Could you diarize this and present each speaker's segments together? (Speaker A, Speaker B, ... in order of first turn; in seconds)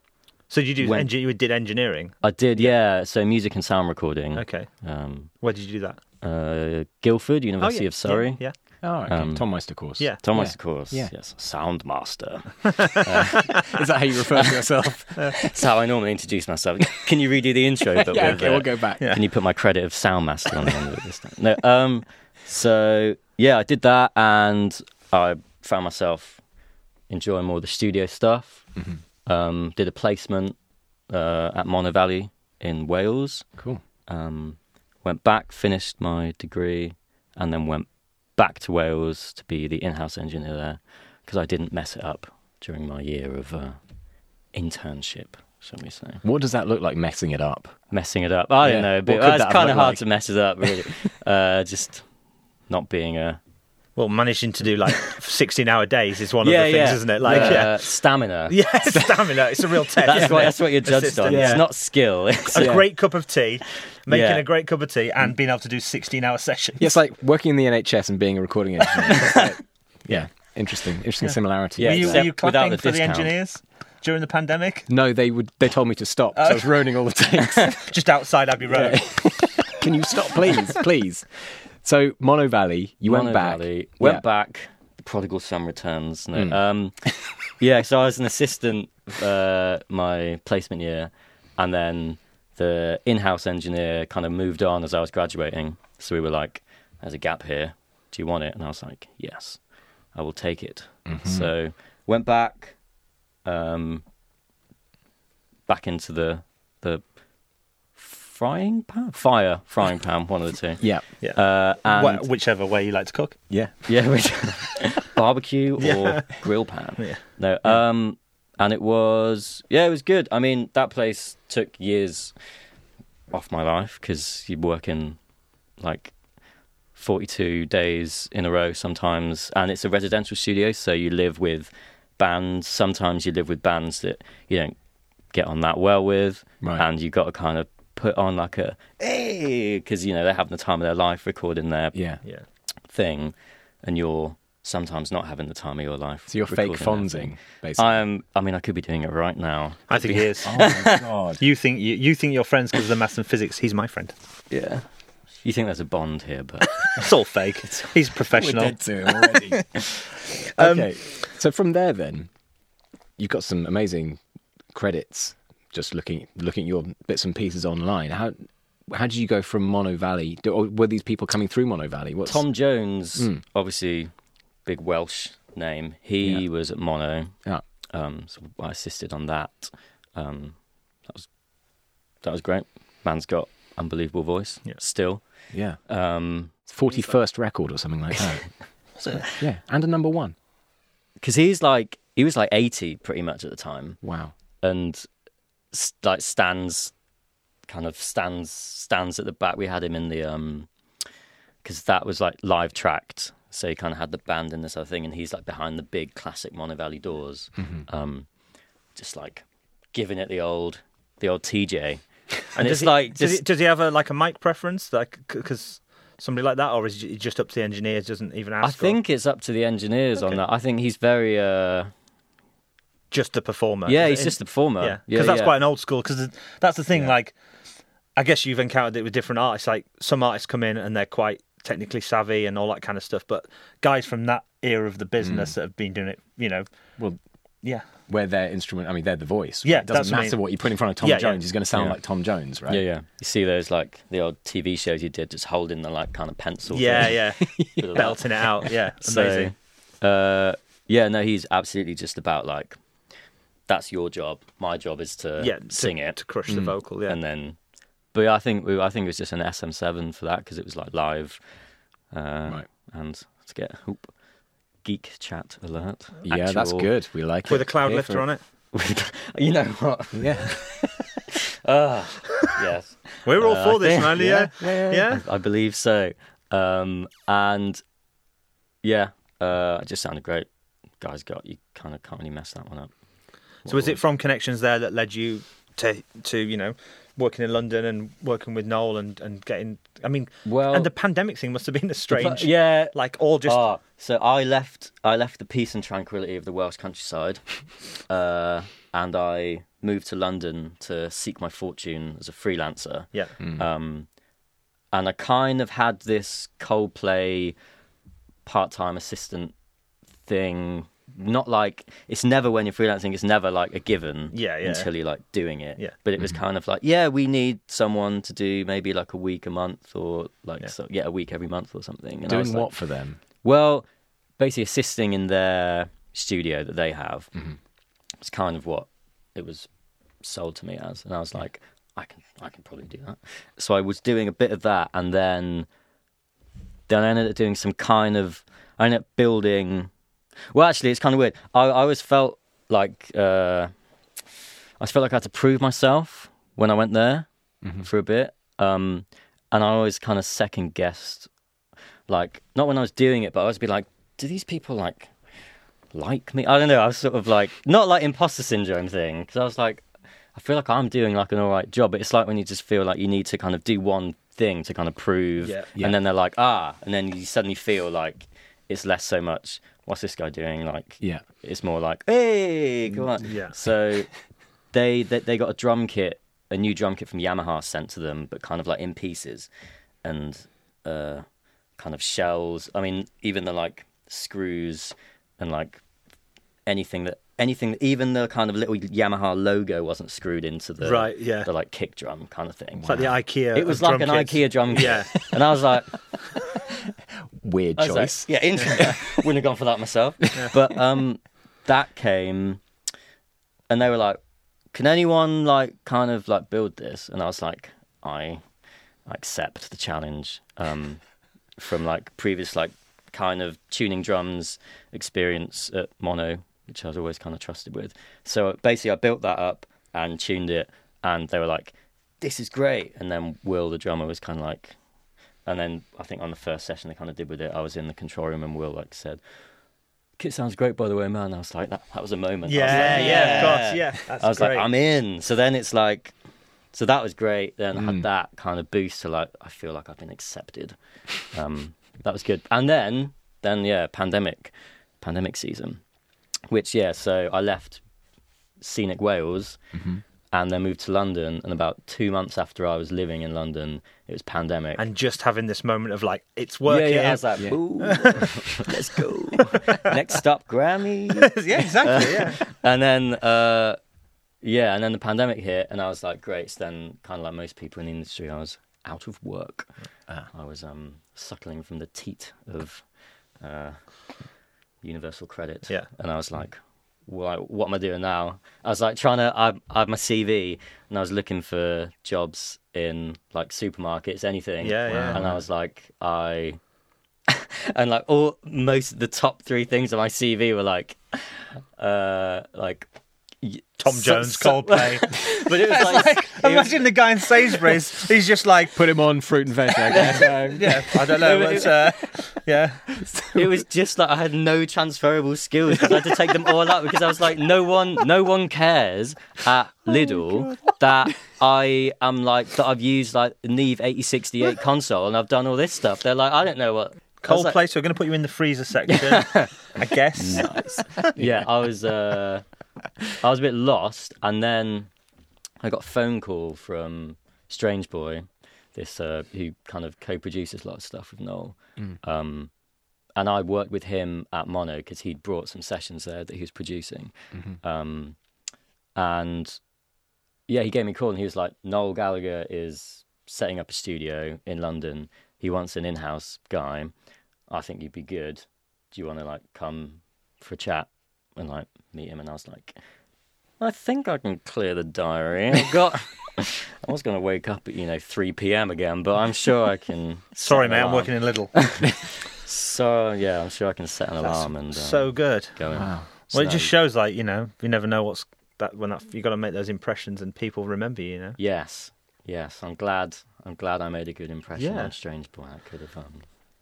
Speaker A: 0.5-2.7, 4.3-4.7, 5.3-6.0, 7.6-8.5, 12.8-13.4, 54.0-57.8, 58.5-61.7, 62.5-67.0, 71.2-74.9, 76.3-76.8, 77.7-79.1, 111.2-113.4, 115.8-116.4, 149.9-150.7, 151.4-154.1, 156.8-160.9, 212.6-219.0, 223.1-227.3, 228.2-236.6, 239.6-240.4, 241.0-241.4, 246.7-249.5, 255.4-257.2, 267.5-268.4, 273.2-275.2, 283.7-293.6, 314.3-314.9, 373.2-373.5, 390.8-391.5, 392.8-395.3, 432.5-434.7, 454.8-457.2, 457.8-458.2, 459.4-459.9, 461.2-462.4, 484.6-485.2, 493.8-498.9, 500.0-502.9, 517.2-521.1, 560.4-561.7, 564.2-565.6, 566.3-571.4, 574.6-574.9
Speaker B: 0.8-1.1, 2.2-5.3, 6.2-8.4, 9.1-9.4, 10.2-13.6, 15.3-26.4, 27.1-28.7, 29.2-30.6, 31.1-33.4, 34.1-43.8, 44.5-46.2, 47.9-52.0, 52.7-53.4, 56.4-58.5, 60.0-62.8, 64.1-64.4, 69.2-69.5, 71.8-73.3, 83.1-87.0, 87.5-99.6, 100.1-102.8, 103.4-104.0, 105.7-107.0, 108.0-112.2, 113.8-122.3, 123.3-125.2, 125.8-126.1, 127.0-134.7, 135.3-141.9, 142.9-151.1, 154.5-154.8, 155.4-157.0, 172.2-174.1, 174.6-177.3, 177.9-180.6, 182.2-185.2, 185.8-186.5, 191.2-194.0, 194.6-195.1, 195.7-196.9, 197.7-200.7, 201.6-208.3, 208.9-213.4, 218.6-221.9, 223.9-225.5, 242.7-247.2, 247.8-252.8, 253.7-256.2, 257.1-257.6, 258.1-261.4, 262.1-264.1, 264.8-266.9, 268.7-277.8, 278.8-280.5, 281.0-282.9, 283.6-284.0, 290.4-290.9, 292.1-297.4, 298.1-304.1, 304.9-307.6, 308.4-309.5, 310.2-322.7, 323.4-323.9, 324.4-327.3, 328.2-329.7, 330.2-335.7, 336.9-339.9, 340.5-343.7, 344.8-347.3, 347.8-351.3, 352.1-355.1, 355.9-374.1, 374.7-379.5, 380.0-381.2, 381.8-385.8, 386.7-395.9, 397.8-402.6, 403.7-404.2, 404.7-408.4, 409.1-411.0, 411.6-424.8, 425.4-429.2, 430.2-436.1, 436.7-440.7, 441.3-445.8, 446.5-447.8, 448.6-449.6, 450.3-454.8, 456.7-463.8, 464.4-469.7, 470.3-472.8, 473.4-473.8, 474.8-486.6, 487.3-492.9, 493.4-496.9, 499.9-501.9, 503.3-517.6, 518.9-522.4, 523.1-524.9, 525.6-532.5, 533.1-538.2, 539.0-539.6, 540.5-546.9, 547.5-552.7, 553.6-566.6, 571.4-576.2
Speaker C: 8.8-11.1, 13.4-15.5, 17.9-19.1, 33.6-33.8, 46.2-47.7, 48.6-50.0, 57.2-57.7, 58.9-59.4, 61.2-61.6, 62.5-62.9, 66.8-72.3, 74.9-78.0, 78.7-84.2, 86.3-87.1, 101.0-101.5, 110.8-111.0, 113.5-113.8, 141.9-142.2, 146.3-148.0, 150.4-151.4, 158.3-159.8, 160.4-162.3, 163.2-164.2, 164.7-168.3, 168.9-172.4, 173.2-173.4, 185.5-185.8, 186.7-188.5, 189.2-190.3, 194.0-194.3, 235.2-235.5, 238.1-242.8, 247.5-248.1, 266.2-268.2, 270.1-270.7, 322.3-323.2, 392.8-393.1, 396.6-399.2, 432.7-433.7, 437.8-438.0, 449.7-450.0, 484.9-485.4, 498.7-501.3, 502.9-503.5, 509.9-510.4, 565.7-566.7